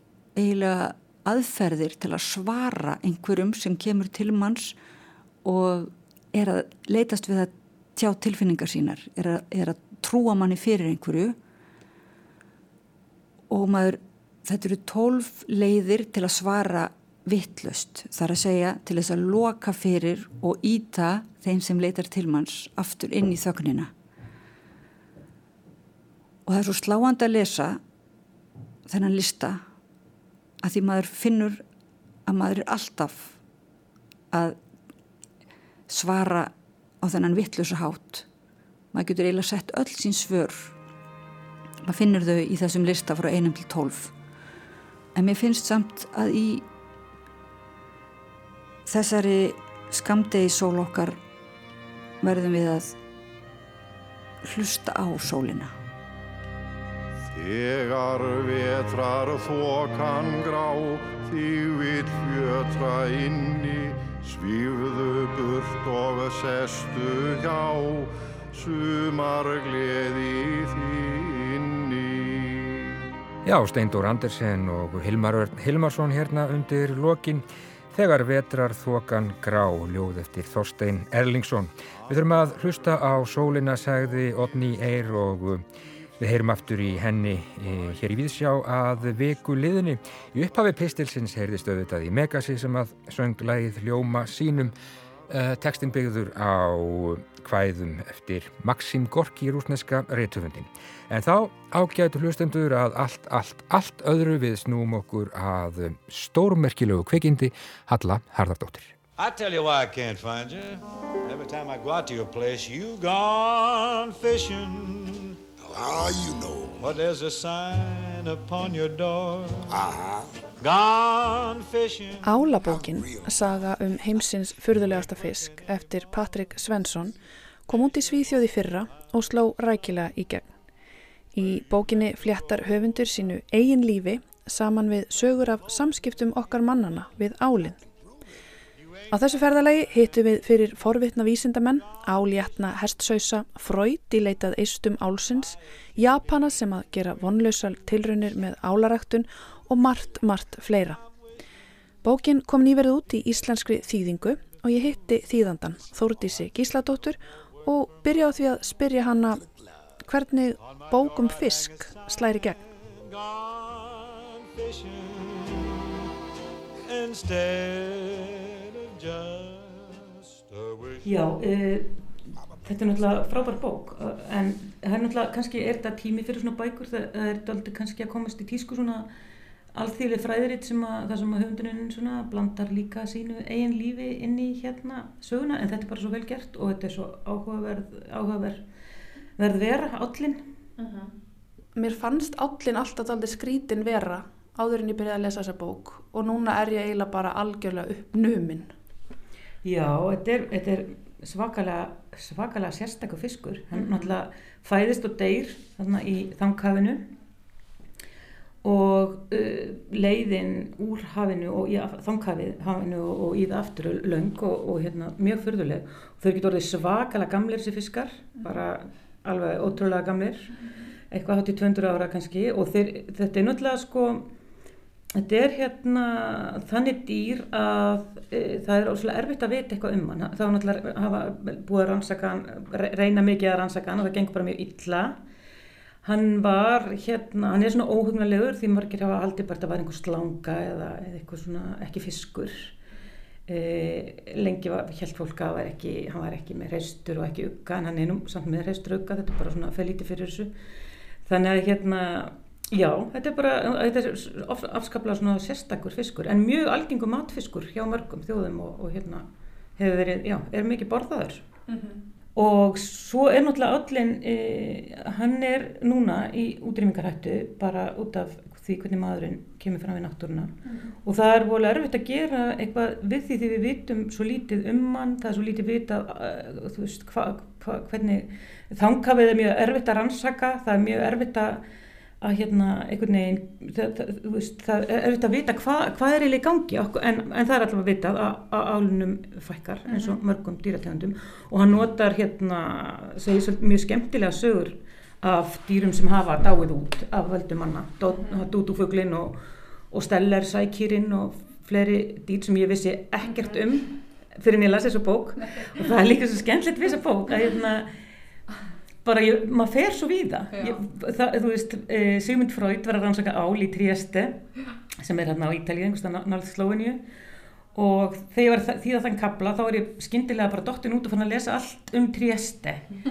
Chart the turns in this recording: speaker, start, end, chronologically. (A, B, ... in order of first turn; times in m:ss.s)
0:00.4-0:04.8 A
0:05.4-0:11.4 A
0:13.5-0:23.9 A
0:26.4-0:27.8 A
0:28.9-0:29.6 A
0:30.6-0:31.6 A
0:32.2-0:33.3 A
0:34.3-0:34.6 A
0:35.9-0:38.2 A
0:38.9-0:40.7 A
0:41.8-0:44.1 A
0:45.1-0:46.6 A
0:48.8-0:51.2 A
0:52.2-0:53.0 A
0:54.4-0:55.7 A
0:57.3-1:12.9 B
1:13.4-1:25.6 C
1:26.2-1:34.7 C
1:35.3-1:49.0 C
1:49.2-1:55.3 D
1:55.9-2:00.0 D
2:00.6-2:02.3 D
2:02.2-2:10.5 E
2:11.3-2:17.8 E
2:19.1-2:31.0 E
2:32.0-2:39.4 E
2:40.0-2:42.6 E
2:42.9-2:45.9 D
2:46.8-2:51.0 D
2:51.0-2:51.9 F
2:52.6-2:59.1 F
2:59.7-3:08.6 F
3:09.4-3:10.4 F
3:10.8-3:11.1 E
3:11.8-3:18.7 E
3:19.6-3:27.1 F
3:23.7-3:24.1 E
3:28.6-3:40.5 F
3:41.1-3:44.3 F
3:45.2-3:55.2 F
3:56.0-4:02.7 F
4:03.5-4:10.5 F
4:11.2-4:19.2 F
4:19.8-4:21.4 F
4:21.7-4:22.0 E
4:22.3-4:41.6 F
4:42.2-5:07.9 F
4:49.9-4:50.2 E
4:58.1-4:58.4 E
5:09.0-5:14.4 F
5:15.0-5:17.0 F
5:17.7-5:22.9 F